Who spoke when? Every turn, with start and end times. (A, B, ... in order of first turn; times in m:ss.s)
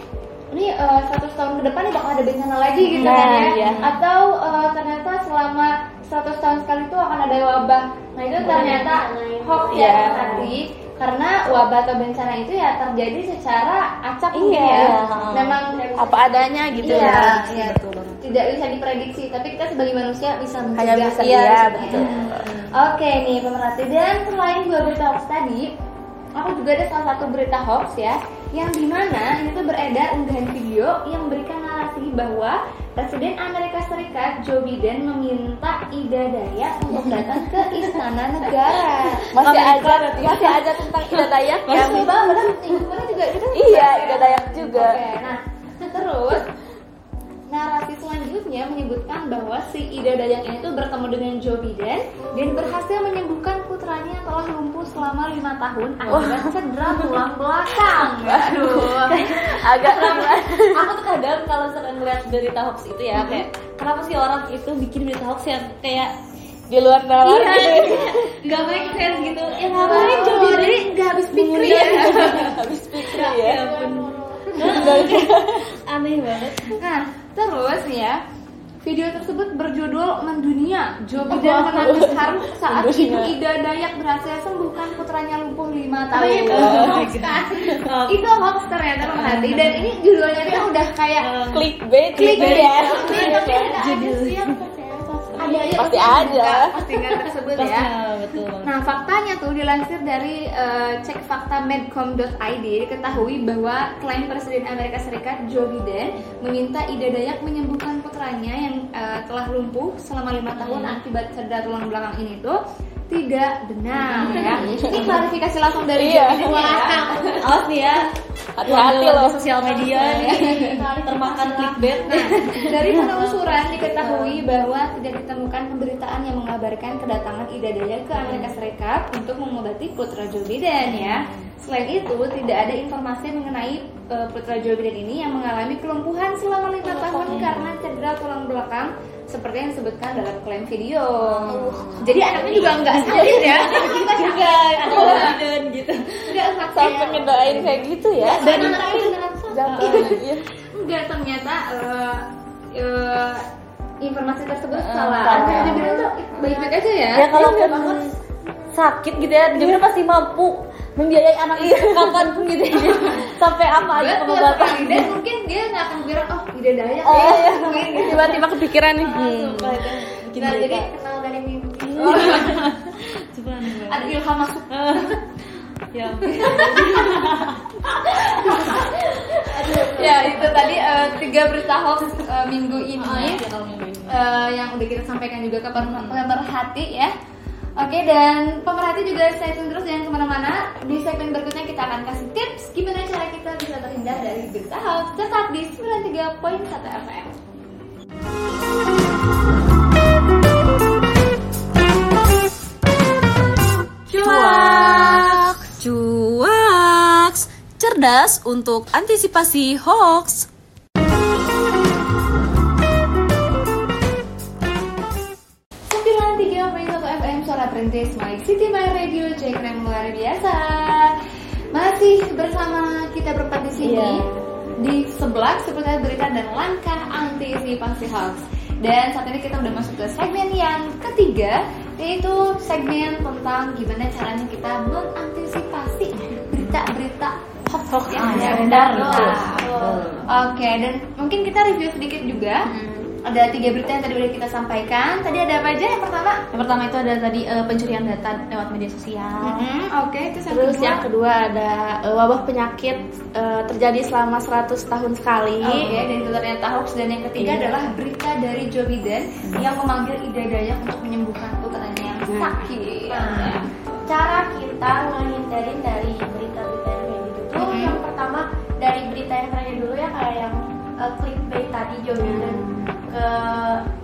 0:00.5-0:16.1 A
0:02.8-0:04.0 B
0:03.0-0:03.8 C
0:08.4-0:10.4 D
0:08.4-0:08.8 B
0:09.7-0:10.6 C
0:14.3-0:15.0 C
0:14.5-0:15.6 B
0:15.7-0:16.3 D
0:15.9-0:17.4 C
0:16.8-0:18.2 B
0:16.8-0:25.7 A
0:20.8-0:22.5 C
0:21.2-0:22.7 B
0:26.4-0:40.6 A
0:36.9-0:38.0 B
0:39.3-0:42.7 C
0:41.7-0:42.3 B
0:41.7-0:46.4 A
0:43.5-0:45.0 C
0:47.5-0:59.4 A
0:56.0-0:57.2 B
0:56.1-0:56.4 C
0:58.1-1:00.8 C
0:58.6-1:06.1 B
1:06.7-1:08.3 C
1:07.2-1:16.8 B
1:09.8-1:12.5 A
1:09.9-1:10.7 C
1:11.9-1:13.7 C
1:13.1-1:15.0 D
1:14.6-1:15.7 C
1:16.8-1:18.2 A
1:18.8-1:27.0 A
1:21.2-1:23.4 C
1:26.1-1:27.7 D
1:26.3-1:27.1 C
1:26.5-1:28.2 B
1:27.8-1:31.3 A
1:29.1-1:29.9 B
1:31.2-1:34.6 B
1:31.5-1:33.8 C
1:32.1-1:32.9 A
1:32.8-1:36.2 D
1:35.4-1:37.9 A
1:35.7-1:36.7 C
1:37.6-1:38.7 B
1:38.6-1:52.6 A
1:50.6-1:51.0 B
1:53.1-1:57.1 A
1:53.9-1:55.2 B
1:54.6-1:55.2 C
1:55.9-1:56.6 C
1:56.4-1:57.6 D
1:57.4-1:58.1 B
1:58.6-2:00.2 C
1:58.6-2:04.4 B
1:59.7-2:02.3 D
2:02.1-2:25.4 A
2:08.2-2:08.6 B
2:10.8-2:11.4 B
2:16.8-2:17.7 B
2:21.2-2:26.5 B
2:26.2-2:27.7 A
2:26.7-2:30.4 C
2:26.8-2:27.2 D
2:28.2-2:30.1 D
2:28.2-2:29.1 A
2:29.7-2:30.2 B
2:29.7-2:30.2 A
2:30.7-2:33.4 A
2:34.0-2:37.3 A
2:34.7-2:36.6 B
2:35.3-2:35.8 C
2:37.1-2:38.2 B
2:37.3-2:38.0 C
2:38.7-2:45.1 B
2:41.6-2:42.2 C
2:42.8-2:43.2 A
2:43.8-2:48.4 A
2:47.0-2:50.9 B
2:47.1-2:49.9 C
2:50.4-2:52.5 D
2:51.8-2:54.1 B
2:52.0-2:52.6 A
2:53.8-2:55.2 A
2:54.7-2:55.2 B
2:55.9-2:59.1 B
2:56.2-2:57.2 A
2:58.0-3:03.4 A
2:59.5-3:00.3 D
3:00.0-3:00.7 B
3:02.9-3:04.2 B
3:04.1-3:07.1 A
3:05.8-3:06.2 B
3:07.8-3:17.3 A
3:24.1-3:25.3 A
3:24.2-3:26.2 B
3:26.9-3:27.9 B
3:27.8-3:30.4 E
3:35.9-3:41.1 A
3:41.7-3:44.2 A
3:43.8-3:44.2 B
3:44.8-3:57.4 A
3:56.5-3:56.8 B
3:57.7-4:00.3 B
3:58.0-3:59.7 A
3:58.5-4:00.1 D
4:00.3-4:02.6 A
4:02.7-4:03.1 B
4:03.2-4:06.4 A
4:06.5-4:09.6 B
4:09.4-4:11.0 A
4:10.5-4:16.0 C
4:15.6-4:23.7 A
4:17.4-4:17.9 C
4:22.3-4:22.5 C
4:23.1-4:33.8 D
4:27.6-4:28.0 A
4:32.2-4:32.6 C
4:32.5-4:32.9 B